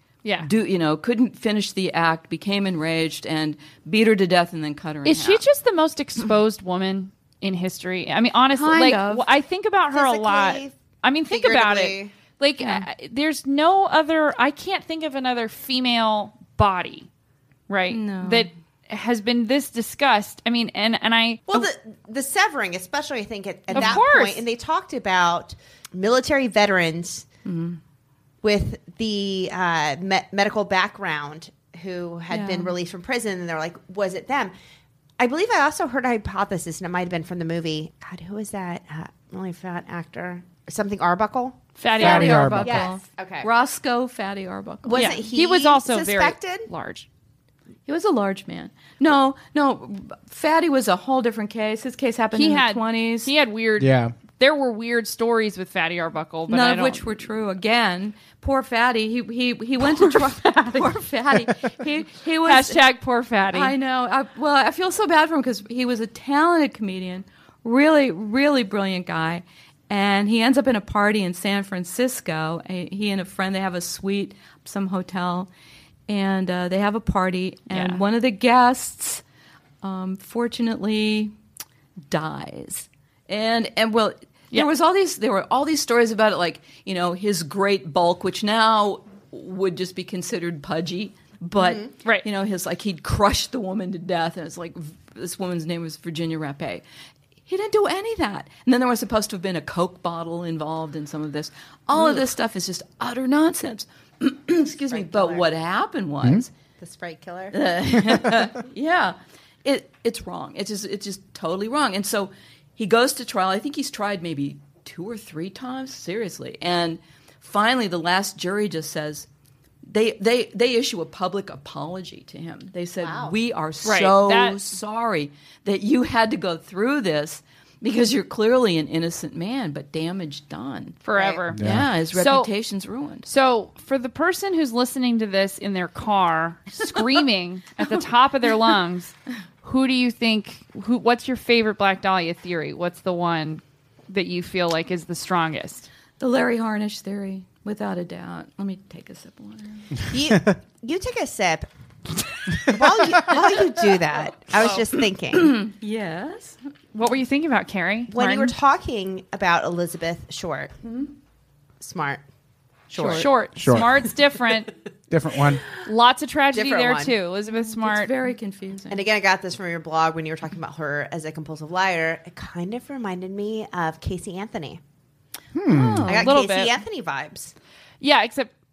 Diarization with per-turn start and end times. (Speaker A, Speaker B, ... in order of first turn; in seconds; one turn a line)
Speaker A: 0.4-5.4
Speaker B: 5.0-17.1
Speaker A: 8.6-9.3
Speaker C: 9.9-10.8
Speaker C: 11.3-12.1
Speaker A: 12.6-12.9
Speaker B: 17.7-21.7
Speaker A: 17.9-18.5
Speaker C: 21.5-27.3
Speaker A: 23.7-24.0
Speaker B: 23.7-24.4
Speaker A: 27.4-27.8
Speaker C: 28.4-34.5
Speaker A: 32.3-32.7
Speaker C: 35.2-41.6
Speaker B: 41.8-42.6
Speaker A: 41.9-45.2
Speaker D: 42.0-42.9
Speaker C: 42.6-43.5
Speaker C: 44.9-46.7
Speaker B: 44.9-47.1
Speaker A: 47.9-53.3
Speaker B: 52.3-57.1
Speaker D: 53.8-54.1
Speaker A: 56.5-62.8
Speaker B: 60.0-60.9
Speaker B: 62.4-63.7
Speaker A: 63.5-75.5
Speaker A: 76.1-79.2
Speaker B: 77.7-78.0
Speaker A: 79.8-81.3
Speaker A: 82.1-96.8
Speaker C: 91.6-91.9
Speaker A: 97.5-106.5
Speaker C: 104.9-105.5
Speaker C: 106.8-107.6
Speaker A: 107.5-119.3
Speaker A: 119.9-131.0
Speaker C: 123.0-123.3
Speaker B: 123.8-124.8
Speaker B: 131.0-131.6
Speaker C: 131.2-131.4
Speaker D: 131.5-131.9
Speaker A: 131.6-133.3
Speaker B: 132.1-132.5
Speaker B: 133.3-145.9
Speaker A: 146.2-149.9
Speaker C: 150.1-151.7
Speaker C: 152.6-155.6
Speaker A: 153.3-154.0
Speaker B: 154.6-154.8
Speaker A: 155.3-156.6
Speaker B: 156.9-158.6
Speaker C: 158.1-160.8
Speaker A: 160.8-161.1
Speaker C: 161.8-162.2
Speaker C: 162.9-163.3
Speaker A: 162.9-163.3
Speaker B: 163.0-164.7
Speaker D: 163.6-163.9
Speaker D: 165.1-165.6
Speaker B: 165.8-168.1
Speaker C: 166.5-167.2
Speaker A: 167.5-169.0
Speaker C: 168.9-174.8
Speaker D: 175.5-176.1
Speaker A: 175.7-176.3
Speaker C: 176.1-177.5
Speaker B: 176.1-176.8
Speaker B: 178.0-178.5